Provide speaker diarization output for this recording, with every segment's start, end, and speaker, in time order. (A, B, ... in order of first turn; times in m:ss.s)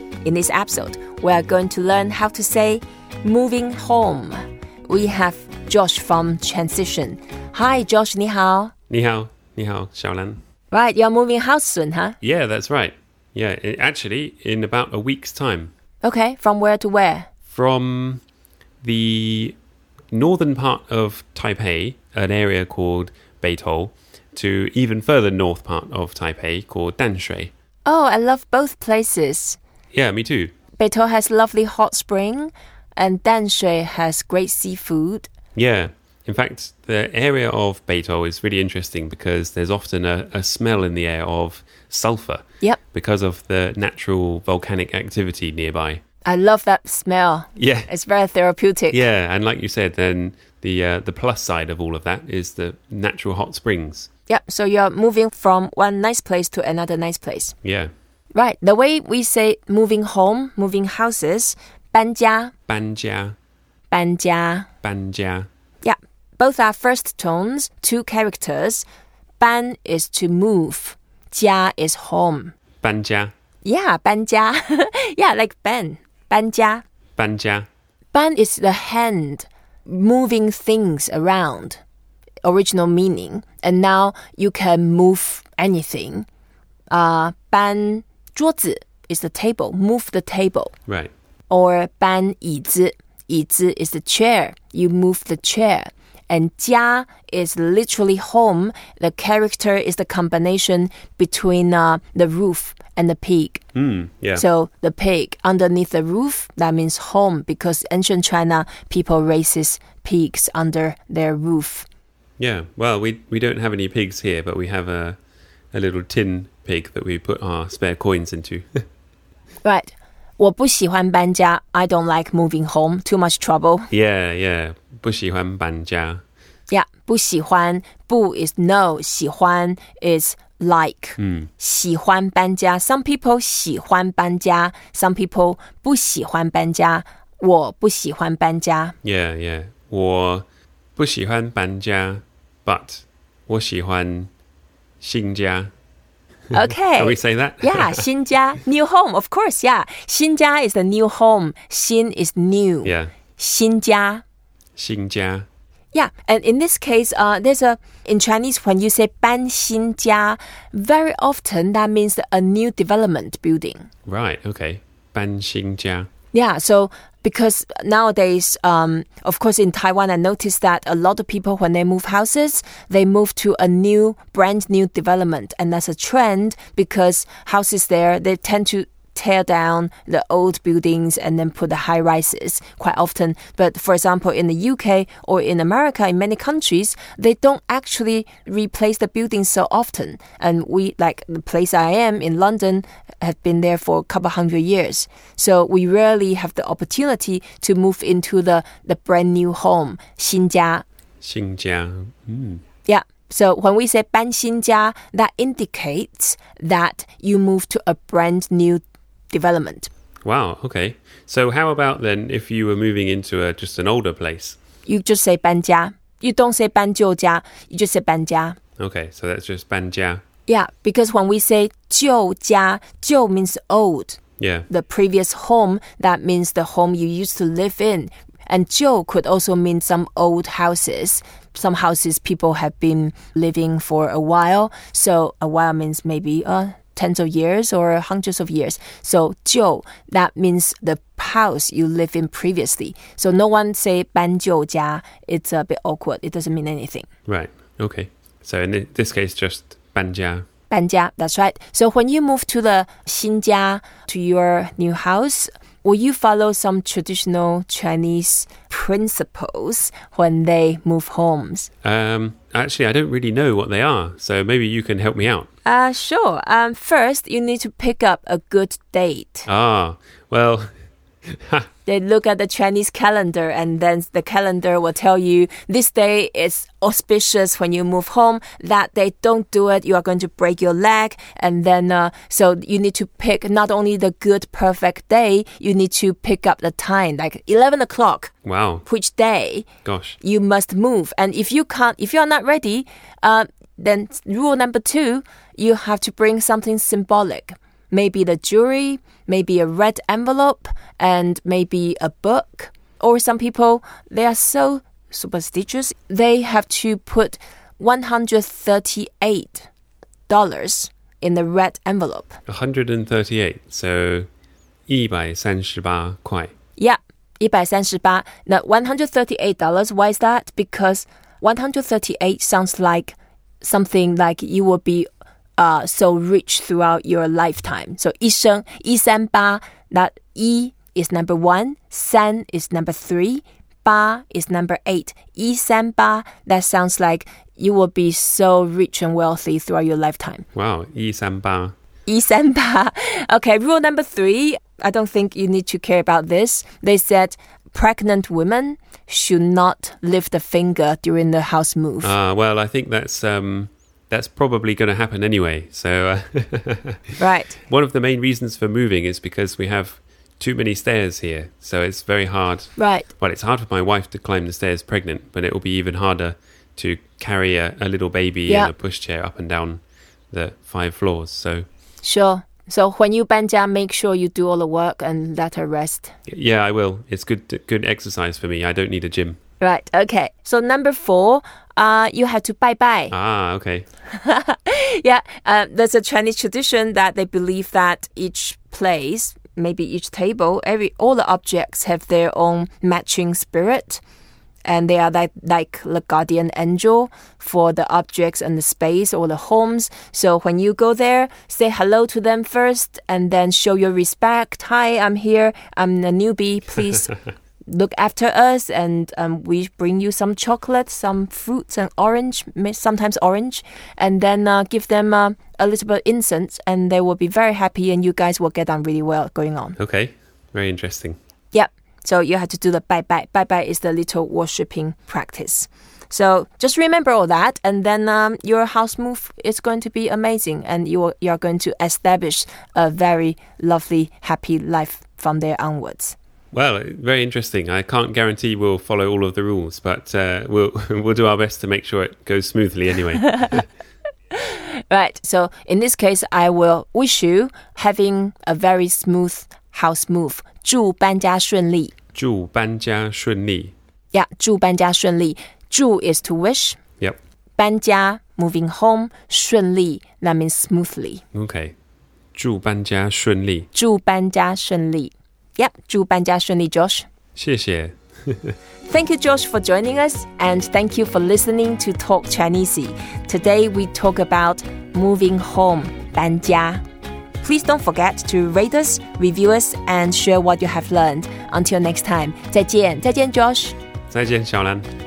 0:00.2-0:08.7 A
0:08.9-0:10.4 B
0:10.7-0:12.2 A
0:12.2-0:15.7 B
0:16.0-0:17.3 A
0:17.5-0:18.2 B
0:18.8-0:19.6 B
0:20.1-0:27.5 B
0:27.8-0:29.6 A
0:29.9-0:30.5 B
0:30.8-0:35.3 A
0:35.6-0:46.0 B
0:46.2-0:49.0 A
0:47.6-0:47.9 B
0:48.9-0:54.1 B
0:54.3-0:57.5 A
0:57.6-0:57.9 B
0:58.3-1:02.5 A
1:02.7-1:03.4 B
1:03.9-1:04.7 A
1:04.8-1:05.5 B
1:05.8-1:08.8 A
1:09.4-1:12.5 A
1:12.8-1:13.3 B
1:13.6-1:16.8 A
1:17.2-1:17.7 B
1:18.1-1:21.8 A
1:22.4-1:26.2 A
1:26.9-1:30.7 A
1:31.5-1:43.6 A
1:43.7-1:44.4 B
1:44.4-1:51.8 A
1:52.4-1:55.2 B
1:55.7-1:58.8 B
1:59.6-2:03.9 A
2:03.9-2:06.2 B
2:06.7-2:19.0 A
2:11.2-2:11.5 B
2:19.0-2:24.3 B
2:25.0-2:25.7 B
2:26.5-2:28.0 B
2:26.5-2:34.2 A
2:32.8-2:33.1 B
2:34.8-2:35.4 B
2:35.9-2:43.9 A
2:44.0-2:46.1 B
2:46.3-3:20.8 A
3:21.2-3:22.6 B
3:22.8-3:29.9 A
3:30.2-3:34.6 B
3:34.8-3:38.6 A
3:38.8-3:40.2 B
3:40.5-4:07.1 A
3:44.4-3:44.7 B
4:07.3-4:10.4 B
4:10.7-4:21.7 A
4:21.8-4:25.5 B
4:25.6-4:29.5 A
4:29.5-4:30.7 B
4:31.2-4:31.7 B
4:31.8-4:48.3 A
4:48.4-4:48.8 B
4:48.8-4:49.7 A
4:49.8-4:50.2 B
4:50.2-5:09.7 A
5:10.3-5:12.4 A
5:12.5-5:14.3 B
5:14.9-5:16.5 B
5:16.8-5:40.4 A
5:40.5-5:41.7 B
5:42.1-5:52.1 A
5:52.0-6:11.6 B
5:57.2-5:57.6 A
6:02.8-6:03.1 A
6:12.0-6:16.1 A
6:16.3-6:19.4 B
6:19.6-6:23.1 A
6:23.1-6:23.8 B
6:24.1-6:34.0 A
6:34.6-6:47.1 A
6:47.7-6:59.8 A
6:59.8-7:01.2 B
7:01.5-7:16.2 A
7:16.5-7:23.6 B
7:24.3-7:31.9 A
7:32.1-7:33.7 B
7:34.1-7:36.8 A
7:37.6-7:41.2 A
7:41.3-7:41.7 B
7:42.3-7:43.7 B
7:43.7-7:47.1 A
7:47.4-7:48.6 B
7:48.8-7:56.8 A
7:57.4-8:03.8 A
8:04.1-8:04.9 B